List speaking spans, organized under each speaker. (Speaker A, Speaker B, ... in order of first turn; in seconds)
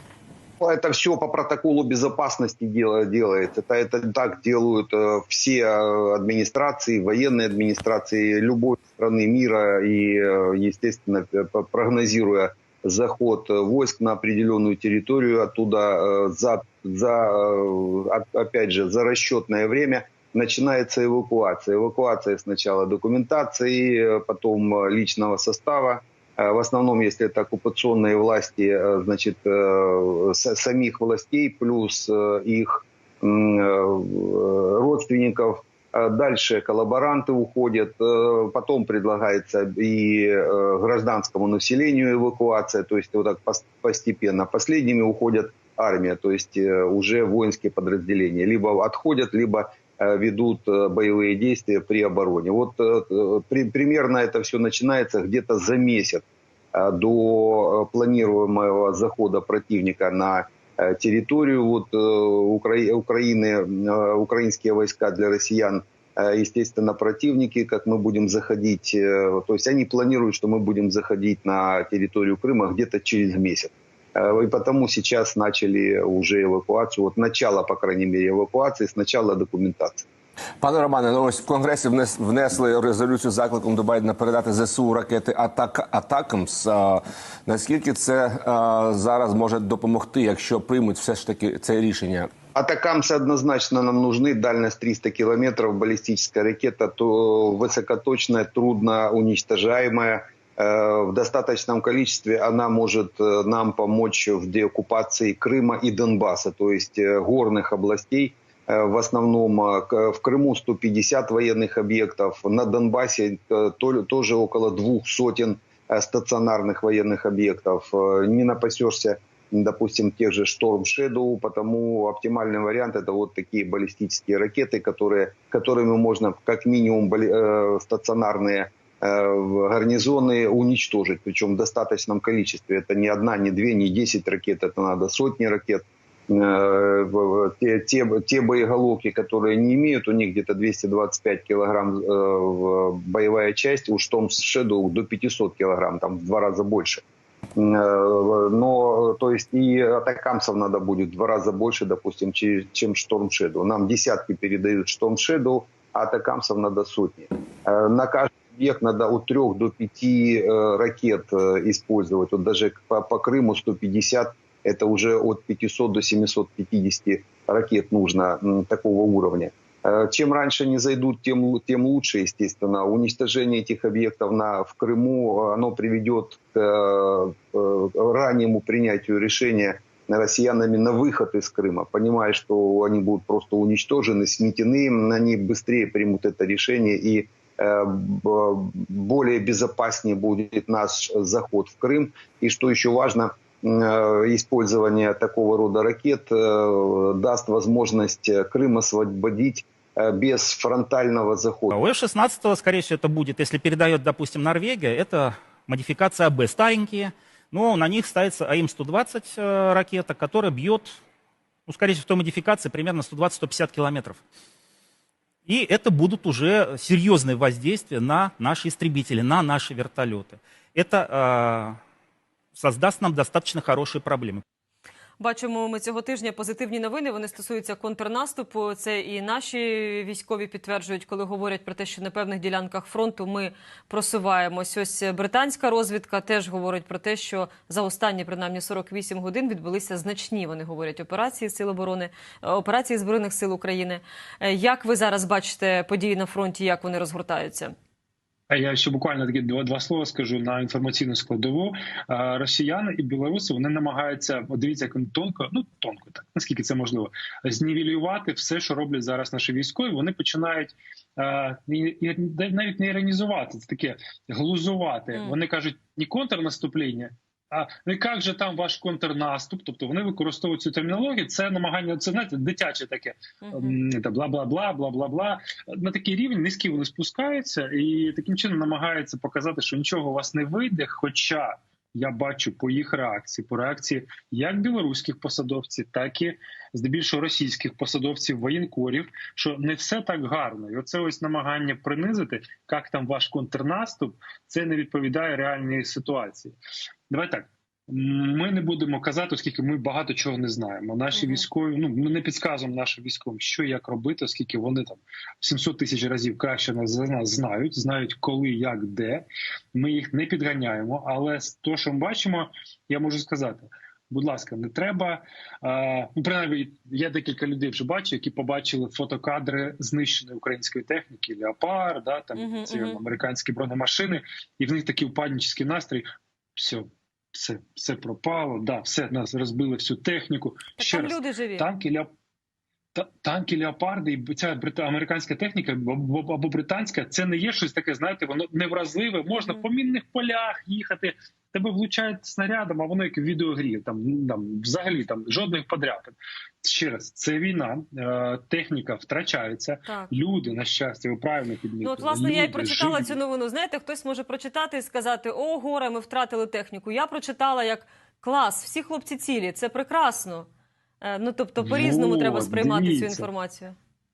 Speaker A: 0.6-80.0, 92.5-147.0, 147.6-201.7
Speaker B: 80.6-92.3
Speaker C: 201.7-210.9, 211.7-214.2, 215.5-221.8, 222.6-224.4
Speaker D: 225.2-247.7, 273.4-273.8, 301.1-301.4, 322.4-323.0, 330.8-331.7, 351.8-360.5, 361.0-363.7
Speaker E: 248.5-296.6, 297.1-326.0, 326.6-332.1, 332.9-353.2, 361.6-363.3